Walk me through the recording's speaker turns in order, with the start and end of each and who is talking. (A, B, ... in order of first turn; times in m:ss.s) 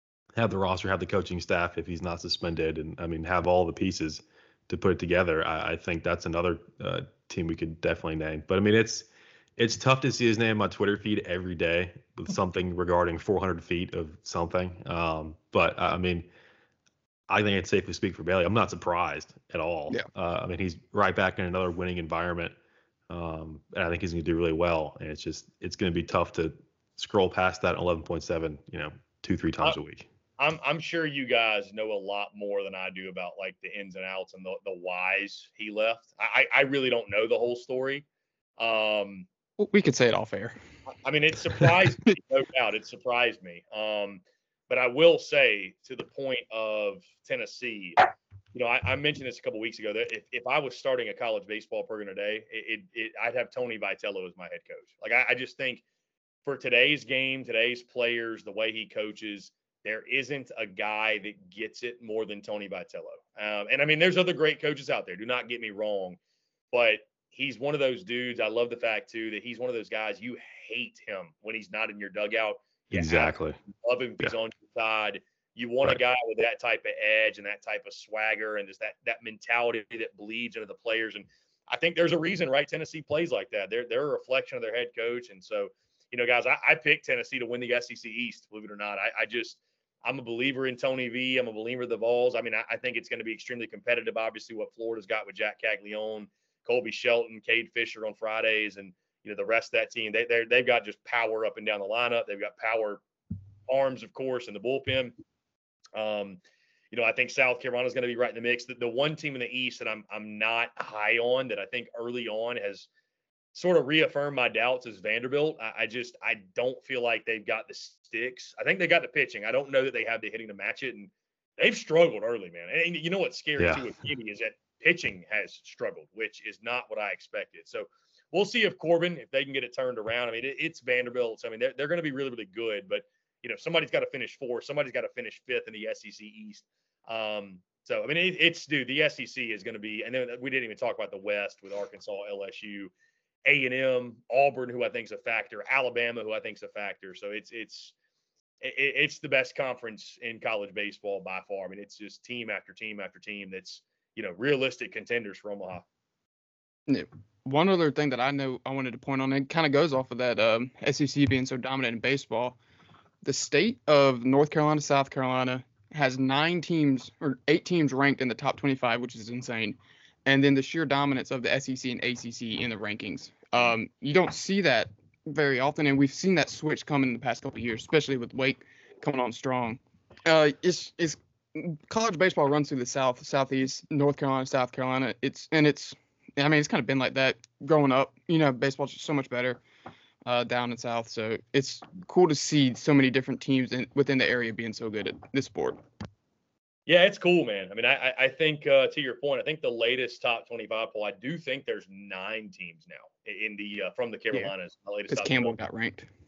0:00.4-0:16.3 A
0:17.3-0:22.5 A
0:23.1-0:30.1 A
0:30.4-0:38.0 B
0:38.6-0:39.3 B
0:39.6-0:40.6 C
0:41.0-0:55.8 B
0:56.4-1:06.2 B
1:06.7-1:43.0 B
1:12.9-1:13.6 A
1:43.7-1:45.1 B
1:45.9-1:46.4 B
1:46.9-1:52.9 B
1:53.5-2:22.9 B
2:03.6-2:03.9 A
2:23.4-2:27.9 B
2:28.6-2:35.8 B
2:36.9-2:42.6 C
2:43.2-3:09.6 C
3:10.2-3:15.8 C
3:16.9-3:25.6 B
3:25.1-3:26.1 C